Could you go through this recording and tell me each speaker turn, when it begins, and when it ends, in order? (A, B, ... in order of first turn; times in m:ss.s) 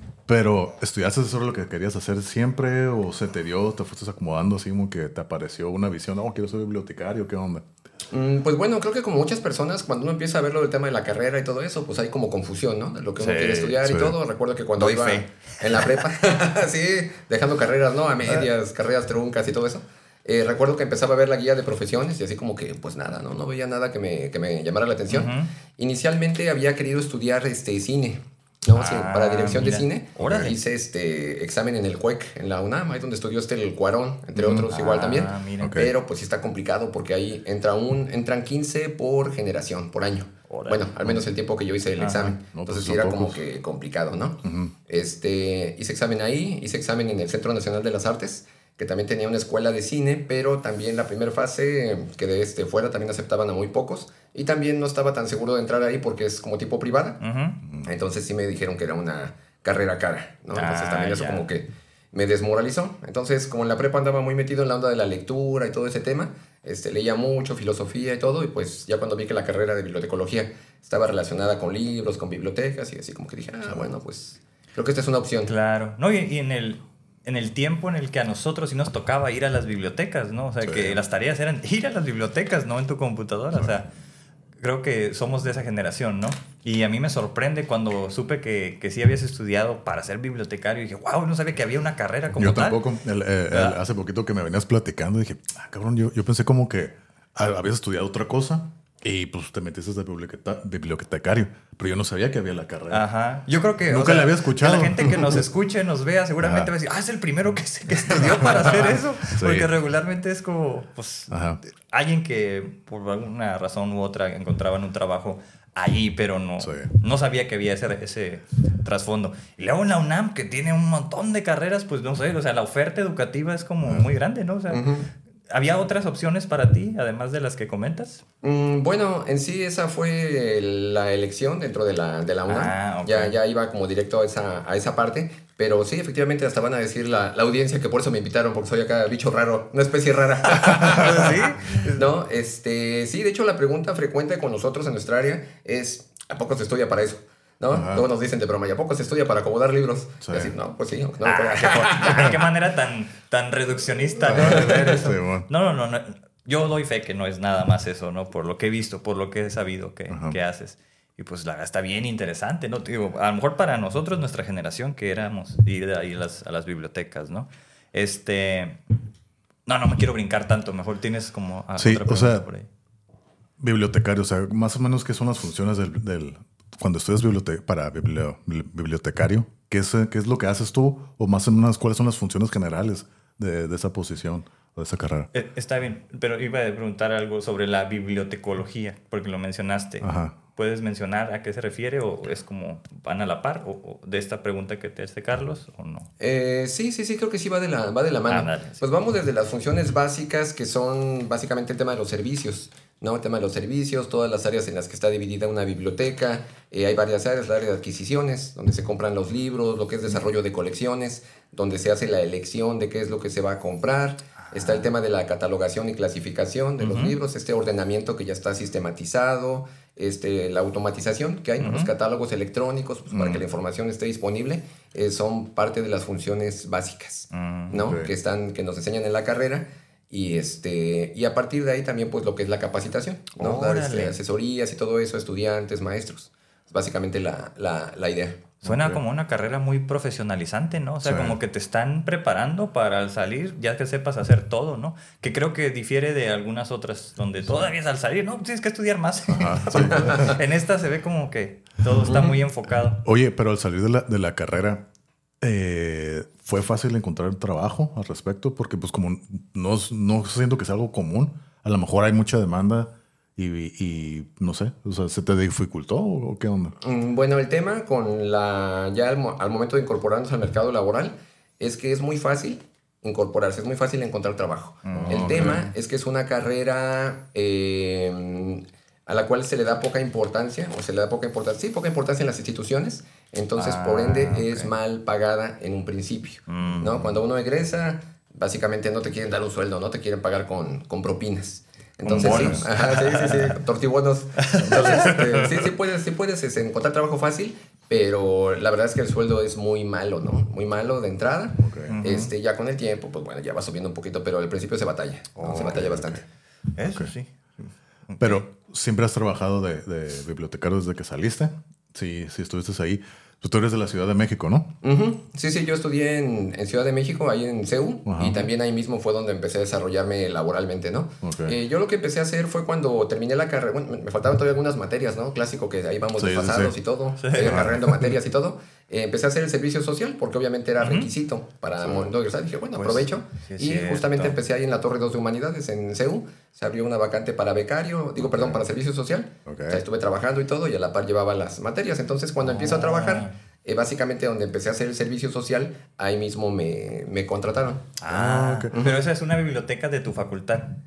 0:00.2-0:07.6 A
0:08.1-0:57.2 B
0:13.2-0:13.8 C
0:13.8-0:14.2 A
0:14.8-0:15.9 C
0:25.1-0:25.5 C
0:28.7-0:30.6 C
0:30.2-0:30.5 A
0:34.4-0:35.8 C
0:35.6-0:35.9 A
0:40.5-0:40.9 C
0:42.0-0:42.4 C
0:42.5-0:43.4 A
0:44.4-0:44.8 A
0:57.2-0:57.6 C
0:57.8-1:15.5 B
1:00.5-1:01.5 C
1:15.5-1:23.9 C
1:20.6-1:21.0 A
1:24.6-1:32.8 C
1:32.4-1:43.1 A
1:33.5-1:33.8 C
1:42.9-2:04.9 C
1:43.9-1:45.5 A
1:46.4-1:46.7 A
1:49.4-1:49.7 A
1:51.3-1:51.6 A
1:56.6-1:56.9 A
2:04.7-2:05.1 B
2:05.5-2:08.2 C
2:08.4-2:32.4 B
2:12.5-2:13.3 C
2:20.8-2:22.0 C
2:27.7-2:28.1 A
2:30.2-2:30.5 A
2:31.2-2:48.8 C
2:34.2-2:35.5 A
2:34.5-2:35.1 B
2:40.1-2:40.4 A
2:49.7-2:52.7 C
2:51.8-2:52.4 A
2:53.6-3:05.3 A
3:05.3-3:16.1 C
3:10.0-3:10.4 A
3:16.2-3:58.4 B
3:18.3-3:18.8 C
3:34.4-3:34.9 C
3:36.8-3:37.1 C
3:41.6-3:41.9 C
3:43.1-3:43.4 A
3:47.3-3:47.9 C
3:47.7-3:48.1 A
3:53.4-3:54.2 C
3:58.6-3:59.0 A
3:58.6-4:13.0 C
4:01.0-4:01.4 A
4:09.3-4:10.4 A
4:09.9-4:10.2 B
4:12.1-4:12.4 B
4:13.0-4:14.9 A
4:15.4-4:26.8 A
4:26.8-5:06.2 B
4:34.8-4:35.6 C
4:34.9-4:35.7 A
4:43.6-4:44.7 C
4:46.5-4:47.0 C
4:46.7-4:47.2 A
4:52.1-4:53.6 C
4:52.1-4:52.6 A
4:54.4-4:55.7 C
5:01.6-5:02.0 A
5:01.9-5:02.3 C
5:05.4-5:05.8 C
5:05.4-5:06.2 A
5:06.8-5:08.4 C
5:08.2-5:14.8 A
5:14.8-5:47.9 B
5:18.1-5:18.5 A
5:21.2-5:21.6 A
5:26.2-5:26.8 A
5:27.2-5:27.8 C
5:27.4-5:27.8 A
5:30.8-5:31.1 C
5:31.8-5:32.1 A
5:32.8-5:34.4 C
5:38.2-5:38.6 A
5:39.4-5:39.8 A
5:42.4-5:43.3 C
5:48.0-5:50.8 C
5:48.1-5:48.7 A
5:48.7-5:49.0 B